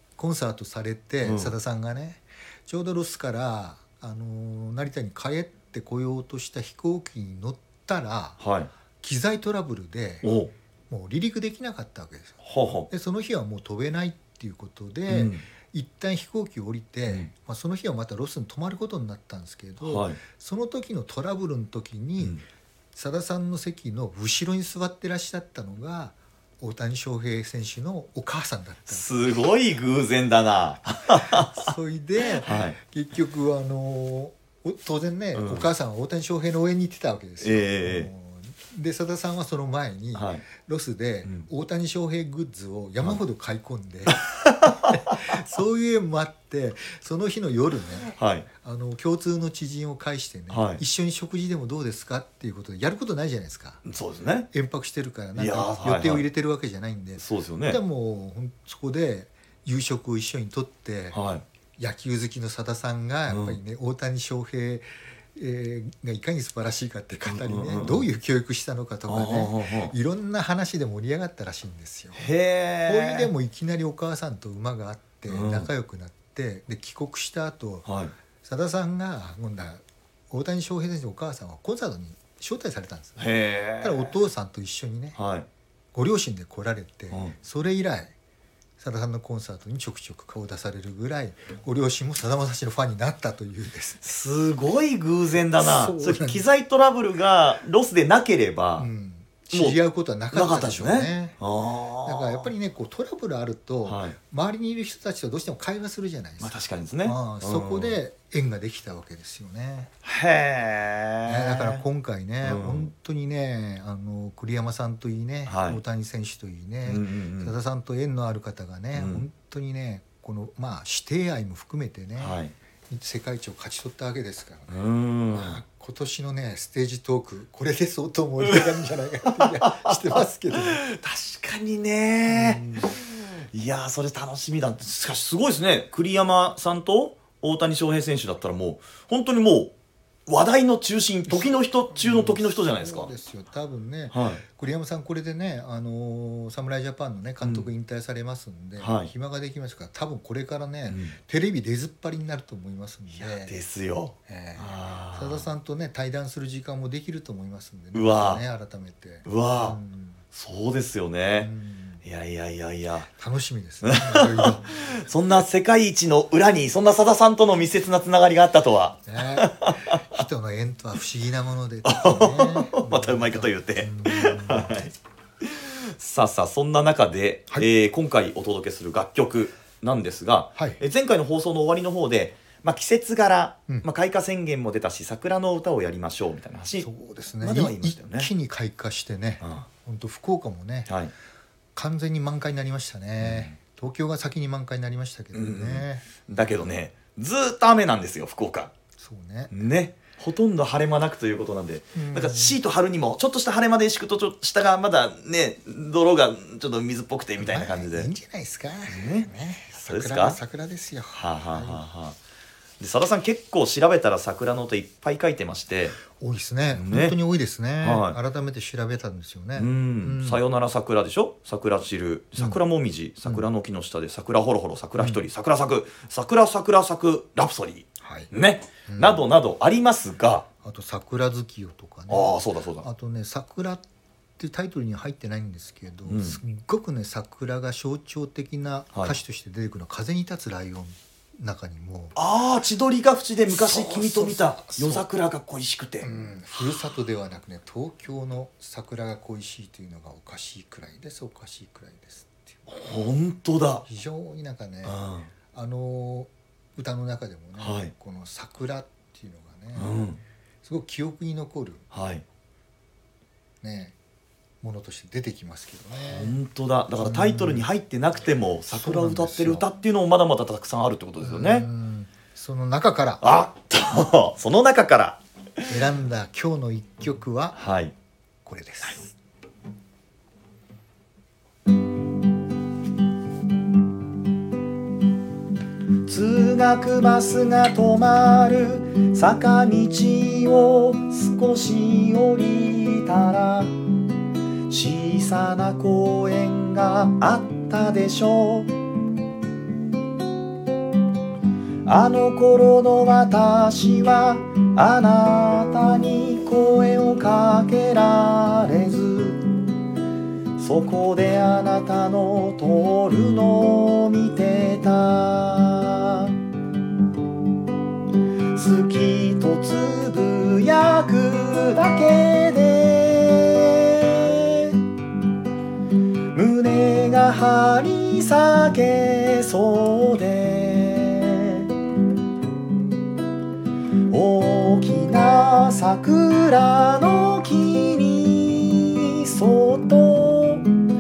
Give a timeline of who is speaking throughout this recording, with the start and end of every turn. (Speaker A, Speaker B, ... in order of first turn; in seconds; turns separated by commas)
Speaker A: 0.2-8.4, Speaker B: 1.2-1.5, Speaker B: 8.4-8.7, Speaker A: 9.0-10.3, Speaker B: 10.2-10.5, Speaker A: 10.9-22.4, Speaker B: 12.4-12.9, Speaker B: 15.1-15.4, Speaker B: 19.8-20.2, Speaker A: 22.9-29.1, Speaker B: 28.9-31.7, Speaker A: 31.2-53.8, Speaker B: 32.3-32.8, Speaker B: 35.3-35.7, Speaker B: 37.4-38.1, Speaker B: 40.1-40.5, Speaker B: 44.1-45.3, Speaker B: 48.2-48.5, Speaker B: 50.5-50.8, Speaker B: 53.8-54.5, Speaker A: 54.5-61.2, Speaker B: 55.4-56.3, Speaker B: 57.2-57.8, Speaker B: 61.1-61.4, Speaker A: 61.8-72.2, Speaker B: 63.3-63.6, Speaker B: 67.2-68.1, Speaker B: 69.1-69.9, Speaker B: 72.2-73.3, Speaker A: 72.9-77.9, Speaker B: 75.3-75.7, Speaker B: 77.8-78.1, Speaker A: 78.4-85.2, Speaker B: 83.2-84.2, Speaker B: 85.2-85.5, Speaker A: 85.9-88.1, Speaker A: 88.8-94.0, Speaker B: 94.0-98.9, Speaker A: 95.6-96.5, Speaker A: 98.8-101.4, Speaker B: 99.5-99.8, Speaker B: 100.3-102.5, Speaker A: 102.0-109.9, Speaker B: 103.9-104.2, Speaker B: 106.4-108.0, Speaker B: 110.0-111.8, Speaker A: 111.3-124.8, Speaker B: 112.4-112.9, Speaker B: 115.5-115.8, Speaker B: 116.9-117.5, Speaker B: 119.0-119.2, Speaker B: 122.2-122.5, Speaker B: 124.7-125.6, Speaker A: 125.3-130.8, Speaker B: 129.3-139.7, Speaker A: 132.3-132.9, Speaker B: 140.3-143.1, Speaker A: 141.3-153.6, Speaker B: 144.1-144.4, Speaker B: 147.4-147.7, Speaker B: 148.8-149.1, Speaker B: 150.9-151.2, Speaker B: 153.1-155.5, Speaker A: 154.3-160.2, Speaker B: 157.9-158.4, Speaker B: 159.2-159.8, Speaker B: 160.3-161.5, Speaker A: 161.4-162.0, Speaker B: 162.0-163.1, Speaker A: 163.1-164.8, Speaker B: 163.8-170.2, Speaker A: 169.1-174.9, Speaker B: 171.8-186.9, Speaker A: 180.6-180.8, Speaker A: 186.8-190.9, Speaker B: 187.4-188.3, Speaker B: 189.4-189.7, Speaker B: 190.9-191.1, Speaker A: 191.8-196.1, Speaker B: 193.2-193.6, Speaker B: 195.3-198.7, Speaker A: 199.0-199.6, Speaker B: 199.5-208.1, Speaker A: 201.9-202.6, Speaker A: 207.4-211.8, Speaker B: 208.9-210.4, Speaker B: 211.2-212.2, Speaker B: 212.8-216.0, Speaker A: 216.1-220.4, Speaker B: 216.7-217.2, Speaker B: 217.8-218.2, Speaker B: 219.6-230.5, Speaker A: 225.0-225.2, Speaker A: 228.0-228.3, Speaker A: 228.9-229.2, Speaker A: 230.6-233.8, Speaker B: 232.1-232.9, Speaker A: 234.4-242.2, Speaker B: 236.1-236.4, Speaker B: 242.2-246.1, Speaker A: 243.5-245.1, Speaker A: 246.0-252.7, Speaker B: 252.7-253.9, Speaker A: 253.9-255.0, Speaker B: 254.8-255.3, Speaker A: 255.5-260.0, Speaker B: 257.6-257.9, Speaker B: 259.8-260.2, Speaker A: 260.6-261.9, Speaker B: 261.9-262.2, Speaker A: 263.6-264.0, Speaker A: 264.6-266.4, Speaker B: 265.9-271.7, Speaker A: 267.0-267.6, Speaker A: 268.7-269.7, Speaker A: 271.2-273.2, Speaker B: 273.2-275.2, Speaker A: 275.7-277.6, Speaker B: 277.5-277.9, Speaker A: 278.4-279.1, Speaker B: 286.1-293.8, Speaker B: 294.7-298.7, Speaker B: 301.8-309.5, Speaker B: 310.6-316.3, Speaker B: 318.5-324.8, Speaker B: 326.3-331.7, Speaker B: 334.1-340.7